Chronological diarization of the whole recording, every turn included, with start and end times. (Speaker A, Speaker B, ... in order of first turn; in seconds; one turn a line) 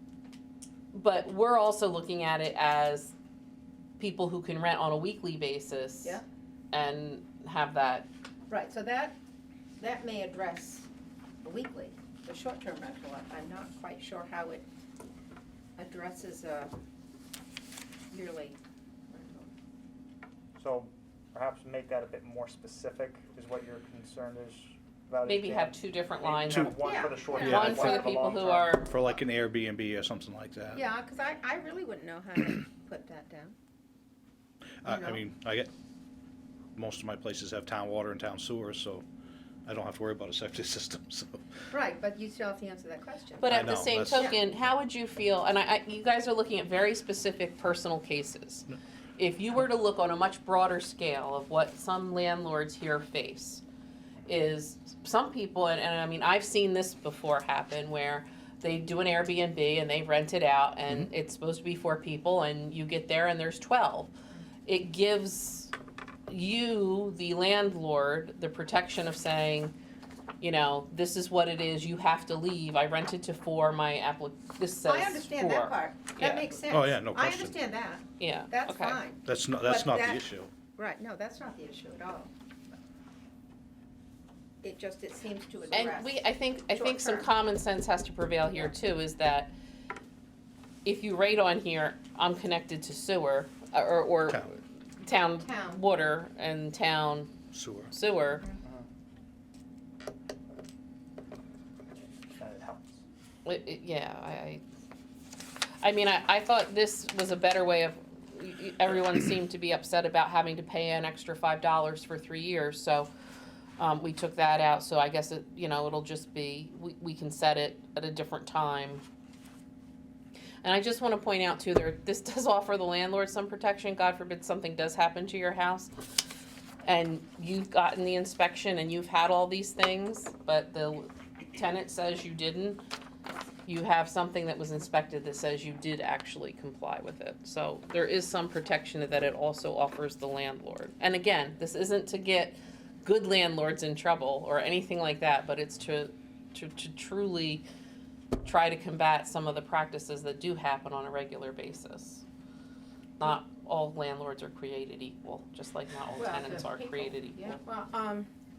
Speaker A: 0.9-3.1
Speaker A: 4.0-8.1
Speaker B: 8.5-9.2
Speaker B: 9.8-10.9
Speaker B: 11.4-14.7
Speaker B: 15.8-16.7
Speaker B: 18.1-18.6
Speaker B: 19.1-19.5
Speaker C: 20.6-29.2
Speaker A: 25.3-28.9
Speaker B: 26.8-27.9
Speaker D: 27.4-27.9
Speaker D: 28.8-30.8
Speaker B: 30.7-33.5
Speaker D: 34.8-35.7
Speaker B: 34.8-35.2
Speaker D: 36.8-39.0
Speaker D: 39.7-41.4
Speaker B: 41.7-44.4
Speaker A: 43.4-53.6
Speaker D: 43.4-44.3
Speaker A: 54.3-64.1
Speaker A: 64.7-65.7
Speaker A: 66.3-69.8
Speaker A: 70.4-76.5
Speaker B: 74.8-82.3
Speaker D: 76.7-77.6
Speaker A: 78.2-79.0
Speaker D: 79.2-80.5
Speaker B: 84.6-87.3
Speaker A: 85.7-89.5
Speaker A: 90.8-97.3
Speaker B: 95.4-95.8
Speaker D: 97.5-97.9
Speaker A: 97.9-98.5
Speaker C: 102.4-103.0
Speaker A: 103.5-104.6
Speaker A: 105.8-113.1
Speaker A: 113.8-119.0
Speaker A: 120.6-125.9
Speaker A: 126.8-132.8
Speaker A: 133.7-147.7
Speaker A: 148.4-152.2
Speaker A: 153.2-157.6
Speaker B: 156.2-158.3